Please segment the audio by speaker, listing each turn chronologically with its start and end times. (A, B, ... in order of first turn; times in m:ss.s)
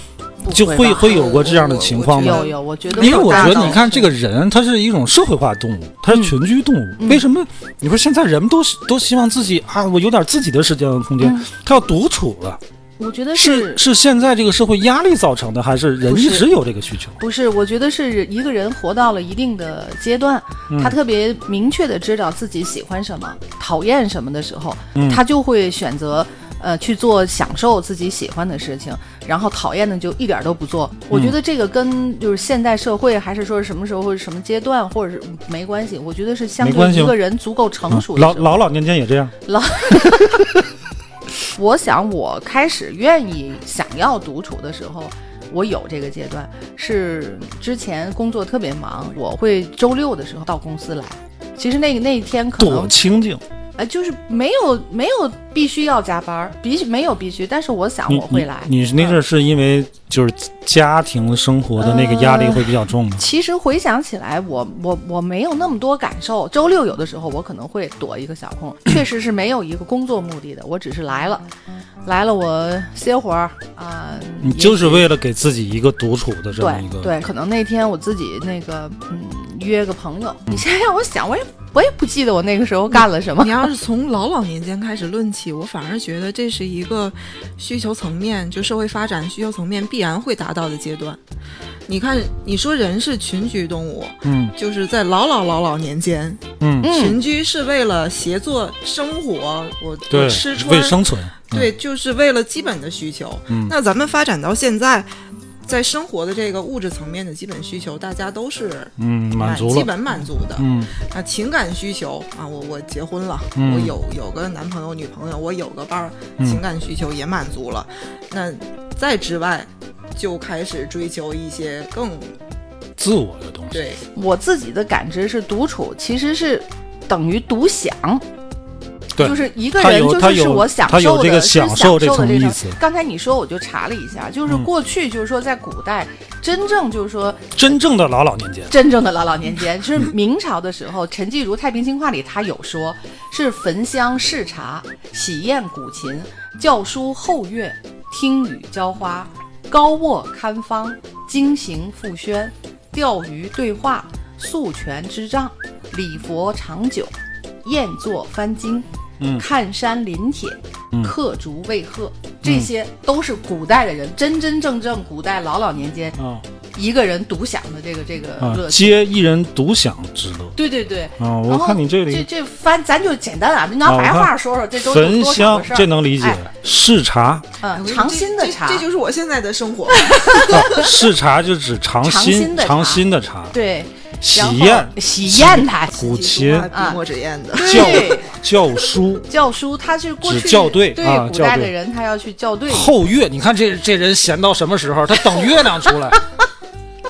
0:00.4-0:01.5 A
0:00.5-0:02.4 B
0:01.0-0:03.9 C
0:02.2-0:04.1 A
0:03.0-0:12.6 B
0:06.1-0:06.4 A
0:07.0-0:07.2 A
0:11.2-0:11.5 A
0:13.0-0:13.8 A
0:13.4-0:17.2 B
0:16.1-0:16.5 A
0:17.2-0:38.5 A
0:20.7-0:20.9 B
0:25.0-0:25.2 B
0:31.1-0:31.4 B
0:36.6-0:37.2 B
0:37.9-0:39.3 B
0:39.4-0:40.6 A
0:39.9-0:40.5 B
0:41.5-0:52.9 A
0:52.6-0:53.4 B
0:53.8-0:59.2 A
0:58.1-1:03.2 B
1:01.8-1:11.5 A
1:12.0-1:15.1 A
1:14.4-1:17.1 B
1:16.6-1:23.7 A
1:23.0-1:31.2 C
1:31.9-1:45.1 C
1:34.2-1:34.6 B
1:36.6-1:37.0 B
1:36.8-1:37.2 A
1:40.1-1:41.7 B
1:43.5-1:43.7 B
1:45.7-2:02.3 C
1:49.0-1:50.0 B
1:50.6-1:50.9 B
1:53.6-1:54.0 B
2:03.0-2:03.8 B
2:03.7-2:04.0 C
2:04.2-2:08.2 A
2:09.2-2:12.8 B
2:09.2-2:17.8 A
2:17.6-2:18.7 B
2:18.7-2:37.1 A
2:37.6-2:46.2 A
2:39.2-2:39.5 B
2:42.4-2:42.7 B
2:46.2-2:46.4 B
2:46.7-2:49.0 A
2:48.4-2:50.6 B
2:50.6-2:56.4 A
2:51.2-2:52.3 B
2:53.8-2:57.5 B
2:57.6-2:58.8 A
2:57.8-3:00.8 C
2:59.9-3:00.9 A
3:00.5-3:03.6 B
3:02.0-3:06.1 A
3:04.2-3:06.7 B
3:05.9-3:08.2 C
3:06.7-3:07.0 A
3:07.5-3:08.3 A
3:07.6-3:09.3 B
3:09.3-3:12.9 A
3:10.2-3:11.7 B
3:12.7-3:16.2 B